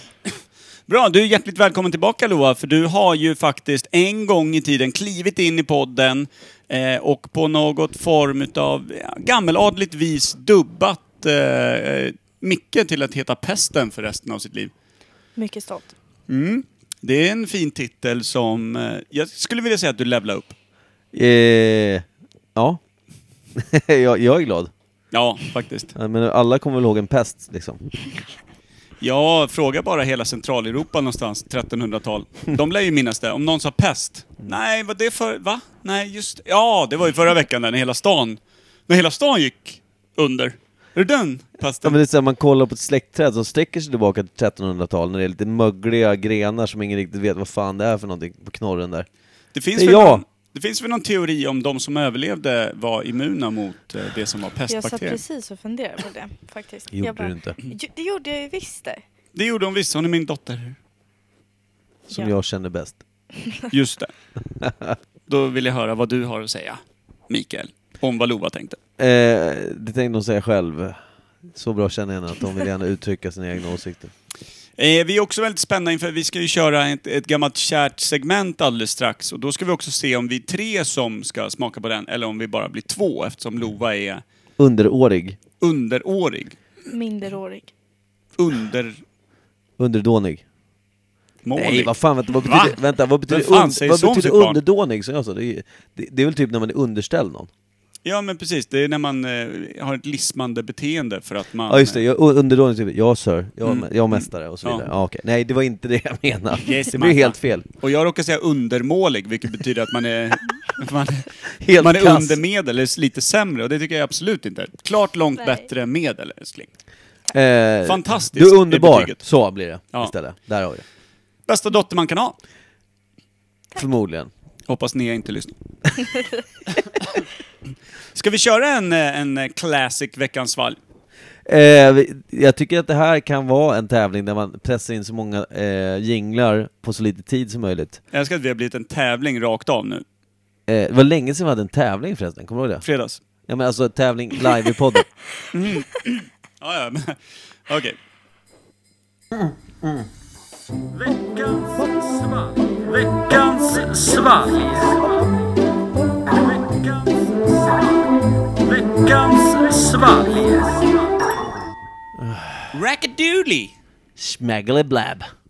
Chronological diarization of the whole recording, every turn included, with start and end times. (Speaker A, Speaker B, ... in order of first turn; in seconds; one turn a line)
Speaker A: 0.9-14.7
Speaker B: 15.4-15.9
Speaker A: 16.3-20.6
Speaker C: 21.1-22.8
Speaker C: 23.6-24.7
Speaker A: 25.1-25.9
Speaker C: 25.9-27.8
Speaker A: 29.0-42.0
Speaker C: 41.8-49.1
Speaker A: 49.5-55.2
Speaker C: 49.8-50.2
Speaker B: 54.7-59.0
Speaker C: 56.9-57.6
Speaker A: 59.4-60.8
Speaker C: 62.1-63.0
Speaker A: 63.7-64.1
Speaker C: 64.6-65.0
Speaker A: 65.3-68.8
Speaker C: 69.0-71.0
Speaker C: 71.5-74.1
Speaker A: 74.8-84.2
Speaker C: 84.6-85.4
Speaker A: 85.6-86.6
Speaker B: 86.9-87.7
Speaker A: 88.4-89.0
Speaker C: 89.8-90.4
Speaker A: 91.4-94.6
Speaker C: 91.6-97.5
Speaker A: 98.0-102.0
Speaker C: 101.7-107.7
Speaker A: 103.6-104.9
Speaker A: 106.7-116.7
Speaker C: 111.6-112.4
Speaker C: 117.3-120.8
Speaker A: 117.8-119.2
Speaker A: 121.5-122.4
Speaker C: 123.8-124.3
Speaker A: 124.7-125.5
Speaker A: 128.1-130.8
Speaker C: 131.5-138.0
Speaker A: 138.1-140.0
Speaker C: 140.7-142.8
Speaker A: 142.8-143.2
Speaker C: 143.5-145.1
Speaker A: 145.5-148.0
Speaker C: 149.3-150.1
Speaker A: 150.9-155.2
Speaker A: 156.3-157.6
Speaker A: 158.6-161.0
Speaker C: 162.2-162.7
Speaker A: 162.7-163.7
Speaker C: 164.2-165.3